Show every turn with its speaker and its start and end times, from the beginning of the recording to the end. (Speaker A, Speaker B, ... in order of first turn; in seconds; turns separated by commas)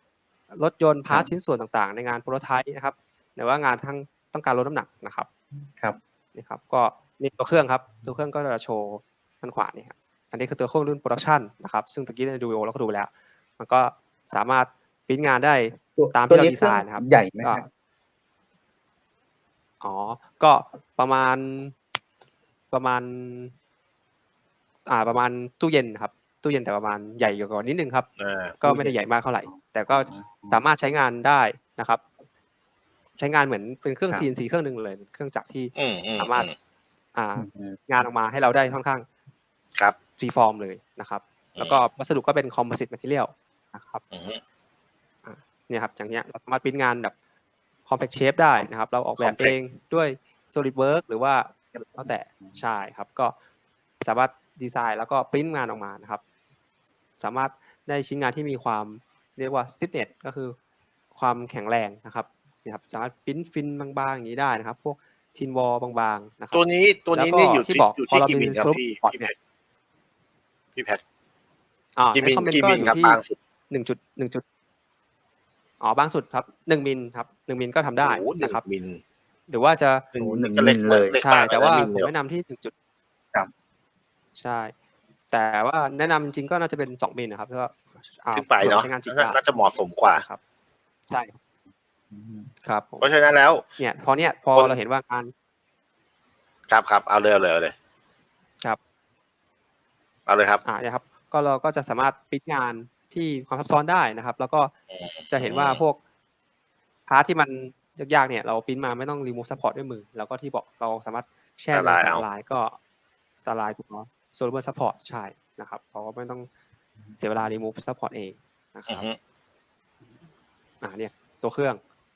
Speaker A: 0.5-5.3, Speaker A: 6.3-17.6, Speaker B: 15.9-17.7, Speaker A: 19.8-21.7, Speaker A: 22.7-23.5, Speaker A: 24.9-28.1, Speaker C: 28.2-28.6, Speaker A: 28.6-32.0, Speaker B: 28.6-30.6, Speaker A: 33.2-36.5, Speaker C: 35.7-36.5, Speaker A: 37.1-39.0, Speaker B: 37.4-37.8, Speaker A: 40.2-44.0, Speaker C: 41.5-41.8, Speaker C: 44.1-44.4, Speaker A: 45.2-47.1, Speaker A: 47.9-53.3, Speaker C: 49.2-49.5, Speaker A: 54.0-56.2, Speaker A: 57.2-60.5, Speaker A: 61.1-69.3, Speaker C: 66.5-69.3, Speaker C: 70.7-71.0, Speaker A: 72.0-74.4, Speaker C: 72.1-73.4, Speaker A: 75.8-78.6, Speaker C: 78.0-79.0, Speaker A: 79.5-80.1, Speaker C: 80.1-82.1, Speaker B: 80.2-81.2, Speaker A: 81.2-82.7, Speaker A: 84.3-84.7, Speaker A: 85.3-89.4, Speaker C: 88.3-90.2, Speaker A: 90.1-90.4, Speaker A: 91.1-91.3, Speaker B: 92.1-92.5, Speaker A: 92.6-93.1, Speaker C: 93.0-93.6, Speaker A: 93.8-95.3, Speaker C: 96.7-97.7, Speaker C: 100.3-100.6, Speaker A: 100.6-104.7, Speaker C: 104.9-105.8, Speaker A: 105.3-106.0, Speaker A: 107.1-112.8, Speaker C: 111.7-112.2, Speaker A: 113.4-116.5, Speaker B: 117.1-117.5, Speaker A: 117.2-119.1, Speaker C: 118.9-119.2, Speaker A: 120.8-121.8